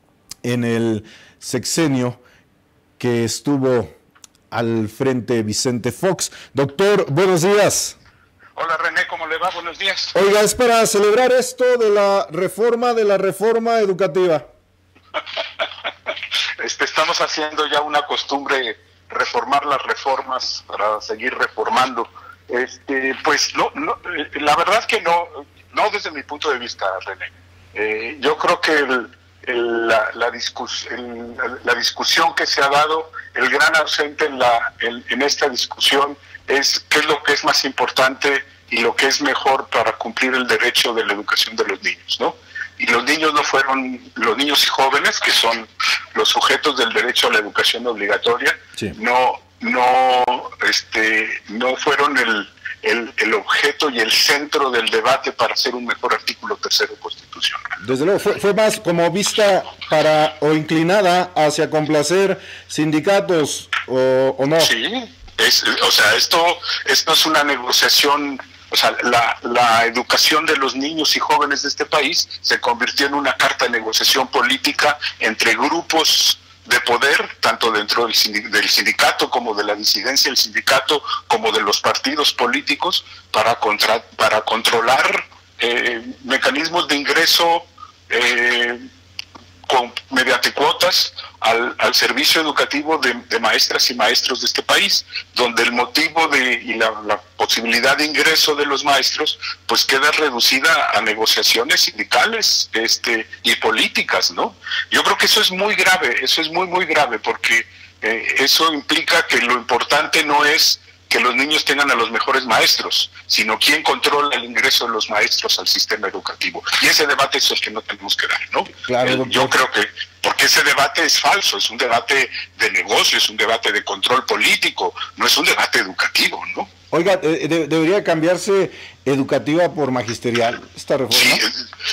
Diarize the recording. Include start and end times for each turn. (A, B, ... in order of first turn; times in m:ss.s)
0:00.4-0:02.2 A
0:03.0-0:03.9 A
0:04.5-0:08.0 A
0:08.6-0:10.1 B
0:10.1-0:14.4 A
0:16.6-0:57.7 B
0:57.8-1:04.7 A
1:04.6-1:28.8 B
1:29.7-2:06.7 B
1:58.7-1:59.6 A
2:06.9-2:11.4 A
2:11.1-2:11.6 B